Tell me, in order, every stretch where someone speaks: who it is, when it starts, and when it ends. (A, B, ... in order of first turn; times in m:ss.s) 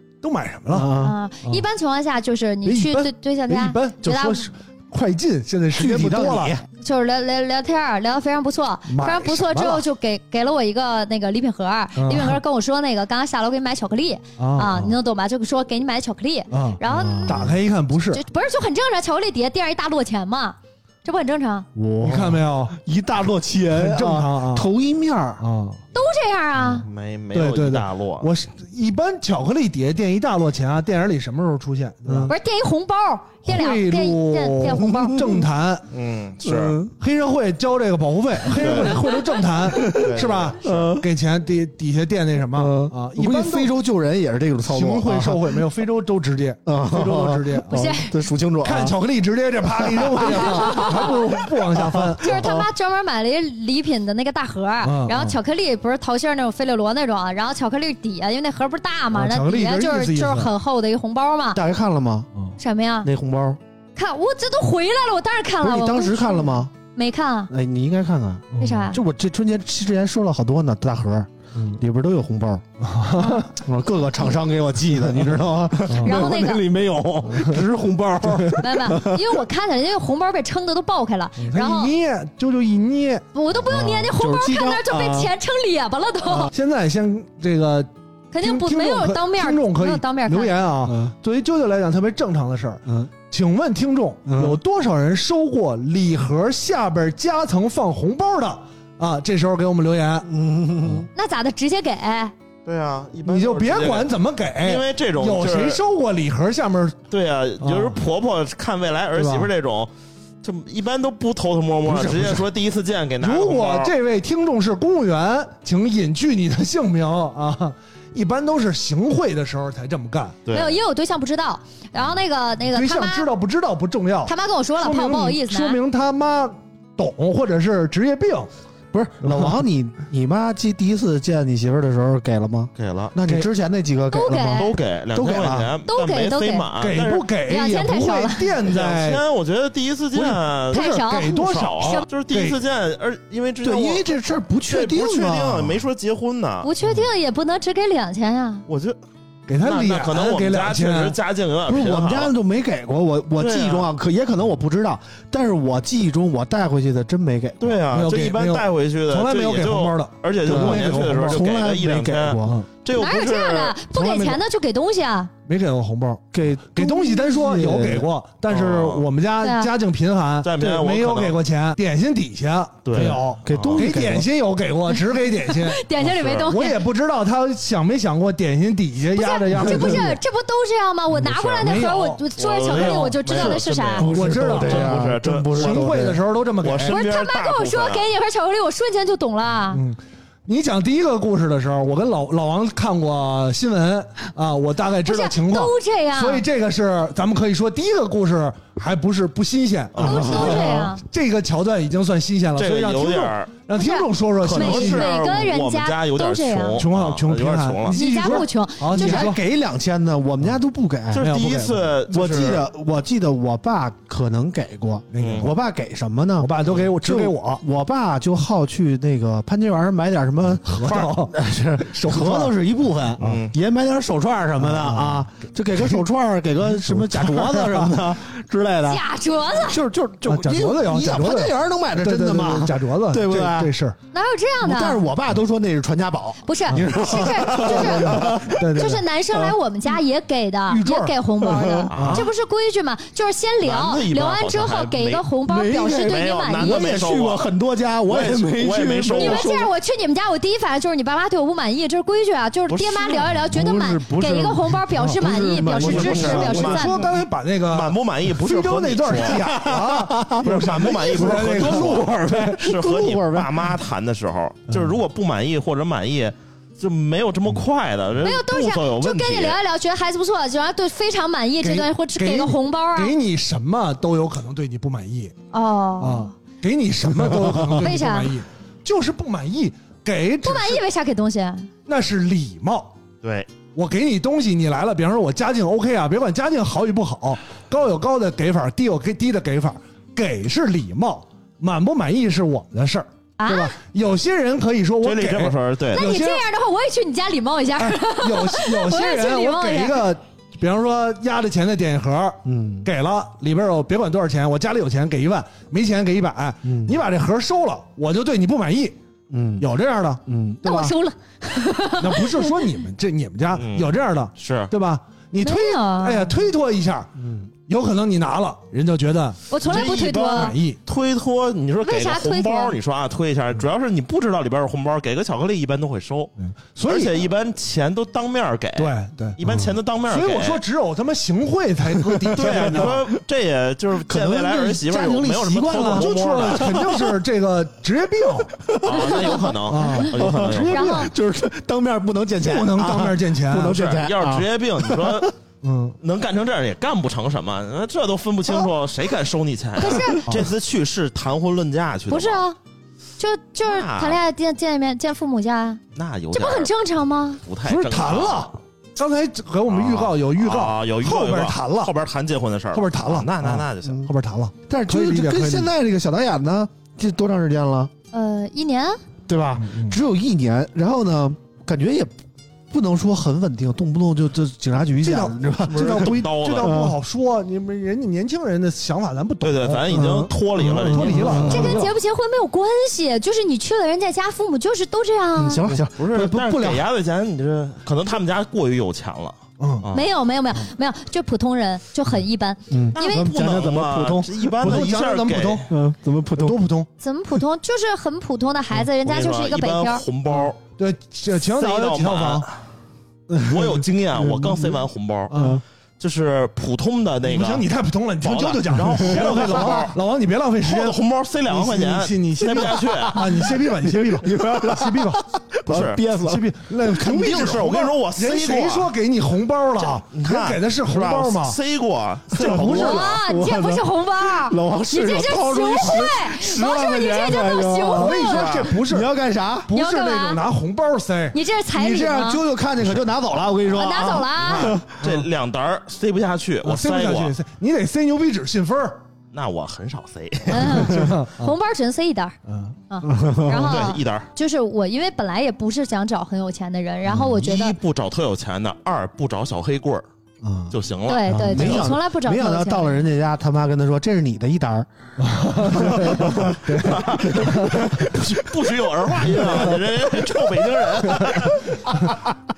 0:00.2-0:01.6 A
0:00.7-0:01.2 B
0:01.0-0:04.5 C
0:02.6-0:06.6 A
0:05.7-0:06.6 B
0:06.7-0:17.5 C
0:08.9-0:09.8 A
0:12.0-0:12.4 A
0:14.4-0:15.0 A
0:16.5-0:18.2 A
0:16.8-0:17.6 B
0:18.1-0:21.7 C
0:21.7-0:25.4 B
0:22.0-0:22.7 A
0:23.7-0:24.7 A
0:25.4-0:25.8 A
0:25.9-0:26.9 C
0:26.8-0:28.3 D
0:27.3-0:32.3 A
0:32.0-0:32.3 B
0:32.3-0:35.2 C
0:33.4-0:35.9 A
0:34.7-0:35.5 B
0:35.9-0:36.8 D
0:36.4-0:36.9 B
0:37.0-0:43.7 A
0:38.5-0:39.0 D
0:38.6-0:39.0 B
0:39.7-0:41.0 B
0:39.8-0:40.9 D
0:42.5-0:45.6 B
0:44.6-0:48.0 A
0:46.6-0:49.0 B
0:47.7-0:48.1 C
0:48.6-0:52.5 A
0:49.6-0:52.7 B
0:50.6-0:51.1 C
0:52.2-1:01.6 C
0:54.8-0:55.4 A
0:59.1-1:00.5 A
1:01.5-1:02.3 B
1:02.6-1:03.1 C
1:03.0-1:03.6 B
1:04.0-1:07.5 C
1:05.6-1:06.7 B
1:07.5-1:12.6 B
1:08.5-1:08.9 A
1:08.6-1:09.0 C
1:11.5-1:11.8 A
1:12.8-1:13.5 A
1:13.2-1:13.4 C
1:13.6-1:19.4 B
1:15.9-1:16.2 A
1:16.0-1:16.6 C
1:17.3-1:17.6 A
1:18.2-1:18.6 A
1:18.6-1:21.9 C
1:21.4-1:23.2 A
1:23.3-1:26.5 C
1:23.5-1:25.3 B
1:26.2-1:26.5 B
1:26.5-1:40.3 A
1:28.3-1:30.6 C
1:30.8-1:31.1 B
1:32.8-1:33.1 B
1:34.2-1:34.6 B
1:40.2-1:41.1 B
1:41.2-1:42.3 C
1:42.6-1:45.8 D
1:43.2-1:47.0 A
1:47.1-1:49.9 D
1:47.6-1:48.0 A
1:49.1-1:49.5 A
1:50.4-1:53.9 D
1:51.9-1:52.4 B
1:53.2-2:00.4 A
2:00.4-2:00.8 D
2:00.5-2:03.3 C
2:02.7-2:08.5 A
2:04.2-2:05.8 C
2:08.9-2:15.7 B
2:09.2-2:09.5 A
2:12.8-2:13.1 D
2:14.1-2:14.7 C
2:14.5-2:17.3 D
2:15.9-2:16.7 C
2:16.8-2:19.2 A
2:17.5-2:18.5 C
2:18.6-2:24.1 D
2:20.1-2:22.6 A
2:20.7-2:22.1 C
2:23.6-2:25.8 B
2:24.6-2:26.7 D
2:26.6-2:28.6 C
2:26.8-2:27.1 A
2:28.7-2:29.0 D
2:29.5-2:31.2 A
2:29.6-2:32.3 D
2:31.6-2:37.8 B
2:33.4-2:33.9 D
2:37.6-2:44.3 D
2:37.9-2:41.4 A
2:40.4-2:42.6 B
2:42.9-2:45.3 C
2:45.5-3:00.2 A
2:46.3-2:48.1 B
2:48.5-2:49.0 D
2:49.4-2:49.7 C
2:50.4-2:51.4 D
2:52.8-2:53.9 D
2:53.0-2:54.3 B
2:55.4-2:56.8 C
2:56.1-2:56.5 D
2:59.1-3:04.1 C
2:59.6-3:00.1 B
3:01.2-3:01.8 D
3:01.6-3:03.0 A
3:02.4-3:06.1 D
3:04.0-3:06.2 B
3:04.1-3:07.0 A
3:06.6-3:08.1 D
3:06.9-3:09.8 C
3:09.7-3:25.4 A
3:15.0-3:16.4 C
3:19.9-3:20.7 D
3:20.0-3:20.9 B
3:20.0-3:21.0 C
3:22.6-3:23.6 D
3:23.7-3:26.8 C
3:24.4-3:28.0 D
3:26.8-3:29.4 A
3:27.9-3:29.3 C
3:28.9-3:31.4 B
3:31.1-3:32.6 D
3:31.2-3:31.9 A
3:32.1-3:49.0 B
3:35.1-3:35.5 A
3:35.2-3:35.5 D
3:36.4-3:37.6 A
3:40.6-3:41.3 A
3:40.8-3:41.1 D
3:41.9-3:42.5 A
3:43.2-3:43.5 D
3:44.6-3:46.0 A
3:46.6-3:48.0 A
3:48.9-3:49.8 C
3:49.6-3:53.7 B
3:50.2-3:54.0 A
3:54.1-3:55.0 C
3:54.6-3:58.6 B
3:56.4-4:06.9 C
3:56.7-3:59.0 A
4:00.7-4:01.2 A
4:01.4-4:01.9 B
4:01.9-4:02.3 D
4:01.9-4:02.3 A
4:03.6-4:05.2 D
4:05.4-4:09.7 B
4:06.0-4:07.5 D
4:08.1-4:09.5 D
4:09.1-4:17.0 C
4:12.7-4:13.4 D
4:13.5-4:16.8 B
4:15.7-4:19.6 D
4:16.1-4:22.4 A
4:19.3-4:23.7 B
4:20.4-4:29.6 D
4:24.7-4:25.0 A
4:28.2-4:33.1 C
4:31.6-4:35.3 A
4:35.5-4:36.3 C
4:36.0-4:40.8 A
4:37.8-4:38.4 C
4:40.4-4:41.7 C
4:41.8-4:42.9 A
4:43.2-4:43.5 D
4:43.7-4:56.4 A
4:53.4-4:53.7 C
4:55.0-4:56.0 D
4:55.9-5:00.0 C
4:57.8-5:09.0 A
5:02.4-5:02.9 B
5:06.6-5:07.0 B
5:09.3-5:09.7 B
5:09.6-5:10.2 A
5:10.2-5:10.9 B
5:10.6-5:12.7 C
5:12.0-5:17.1 A
5:13.5-5:14.7 D
5:15.4-5:16.3 C
5:17.2-5:17.5 B
5:17.7-5:20.8 A
5:19.5-5:20.5 C
5:19.6-5:26.3 D
5:21.8-5:22.8 C
5:26.4-5:27.2 A
5:26.8-5:30.6 D
5:28.8-5:29.4 A
5:30.1-5:33.0 A
5:32.1-5:33.1 B
5:32.3-5:37.0 D
5:34.0-5:37.1 B
5:35.7-5:38.5 A
5:38.6-5:39.5 B
5:38.8-5:40.9 D
5:39.4-5:41.1 A
5:40.1-5:45.3 B
5:40.7-5:41.1 C
5:42.4-5:43.8 A
5:43.6-5:45.3 D
5:45.6-5:46.0 A
5:46.0-5:52.4 D
5:49.8-5:50.2 C
5:52.1-5:52.6 C
5:53.2-5:55.8 C
5:53.6-5:54.2 D
5:55.9-5:56.7 D
5:56.3-5:57.4 C
5:57.4-5:58.5 D
5:57.6-6:01.9 A
5:59.7-6:04.1 D
6:02.7-6:05.7 A
6:03.8-6:04.1 B
6:04.7-6:07.9 B
6:08.1-6:09.0 C
6:09.3-6:12.1 B
6:09.6-6:10.0 A
6:12.7-6:17.0 B
6:15.0-6:20.0 A
6:15.7-6:16.8 D
6:19.4-6:21.8 D
6:19.9-6:21.8 B
6:20.6-6:21.9 A
6:21.5-6:25.6 C
6:25.4-6:26.8 B
6:25.7-6:30.1 D
6:29.6-6:29.8 A
6:29.9-6:33.3 C
6:32.7-6:34.8 B
6:32.9-6:35.7 D
6:34.6-6:35.7 A
6:35.7-6:36.6 B
6:36.4-6:36.9 A
6:37.0-6:40.0 C
6:39.0-6:40.6 D
6:40.3-6:42.5 A
6:41.3-6:42.6 D
6:43.3-6:45.6 B
6:43.4-6:45.3 D
6:45.3-6:45.6 A
6:46.0-6:47.7 D
6:47.2-6:55.2 A
6:48.2-6:50.0 D
6:50.6-6:53.4 D
6:53.1-6:56.5 B
6:55.7-6:56.0 D
6:56.2-7:01.6 A
6:56.9-6:58.9 D
6:59.8-7:03.1 D
7:02.3-7:09.7 B
7:02.4-7:03.0 A
7:02.7-7:08.5 C
7:07.9-7:09.1 A
7:08.3-7:08.7 D
7:09.7-7:11.4 A
7:09.7-7:10.4 C
7:11.3-7:12.4 C
7:11.7-7:14.8 B
7:13.7-7:14.7 C
7:14.4-7:15.3 A
7:15.0-7:17.3 D
7:16.6-7:19.0 A
7:19.3-7:21.0 D
7:20.5-7:22.4 C
7:20.6-7:21.5 A
7:22.5-7:22.8 A
7:22.9-7:27.8 C
7:23.0-7:23.8 B
7:23.5-7:24.3 D
7:27.3-7:30.0 D
7:30.4-7:30.8 B
7:30.7-7:31.9 D
7:31.1-7:33.0 C
7:31.3-7:34.9 B
7:35.2-7:38.1 A
7:35.6-7:36.6 B
7:36.8-7:41.7 D
7:37.1-7:38.1 B
7:39.4-7:39.8 B
7:41.1-7:42.2 A